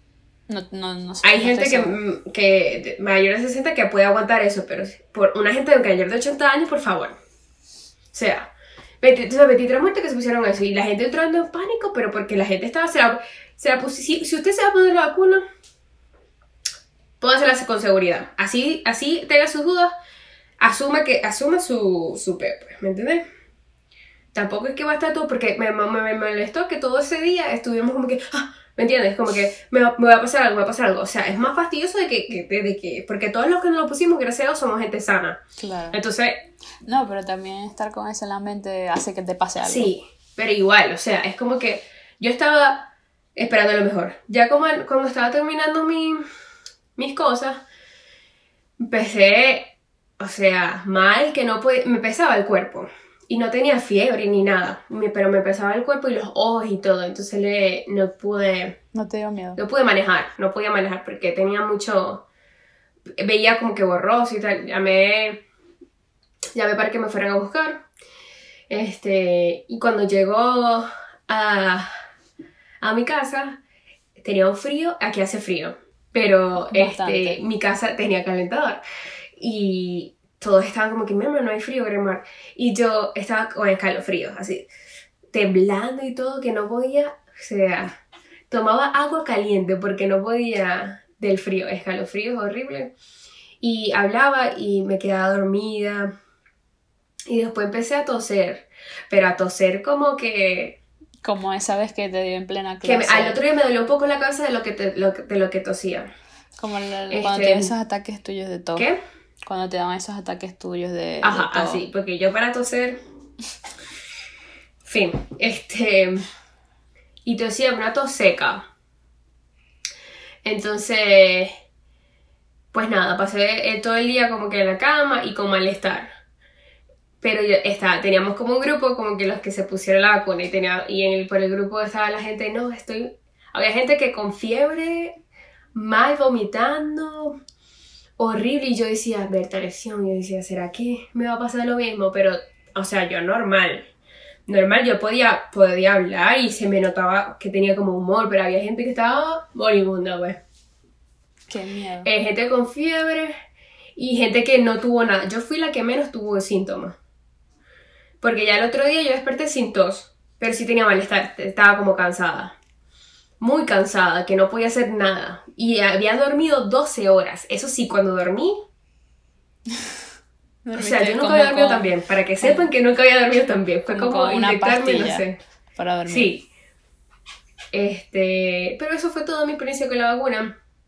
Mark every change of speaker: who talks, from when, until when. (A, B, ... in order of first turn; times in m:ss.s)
0:00.5-0:02.0 A
0:01.2-0:07.2 B
0:08.1-0:15.4 B
0:17.2-0:19.9 B
0:20.6-0:23.2 B
0:24.3-0:36.4 B
0:35.6-0:36.0 A
0:36.8-0:39.9 A
0:39.6-0:46.2 B
0:47.0-0:47.6 B
0:48.8-0:58.8 B
0:58.9-0:59.6 A
0:59.6-1:02.2 B
1:03.2-1:05.4 B
1:06.5-1:07.8 B
1:08.7-1:12.0 B
1:12.8-1:13.6 B
1:14.2-1:18.8 B
1:16.6-1:17.4 A
1:19.4-1:24.7 B
1:25.3-1:28.0 B
1:28.5-1:32.9 B
1:33.6-1:36.1 B
1:37.3-1:40.8 B
1:41.2-1:43.4 A
1:42.8-1:46.1 B
1:46.6-1:48.9 A
1:47.1-1:47.7 B
1:49.4-1:51.8 A
1:51.2-1:53.0 B
1:54.8-1:56.2 B
1:57.2-1:58.7 B
2:00.4-2:01.5 B
2:02.7-2:06.1 B
2:07.2-2:15.2 B
2:15.7-2:17.4 B
2:18.2-2:23.9 B
2:24.5-2:30.4 B
2:31.5-2:32.1 A
2:32.0-2:33.4 B
2:34.0-2:37.0 B
2:38.2-2:42.6 B
2:43.4-2:48.6 B
2:50.6-2:51.9 A
2:50.7-2:55.4 B
2:52.4-2:52.7 A
2:53.9-2:56.3 A
2:56.1-2:56.4 B
2:57.7-3:00.6 B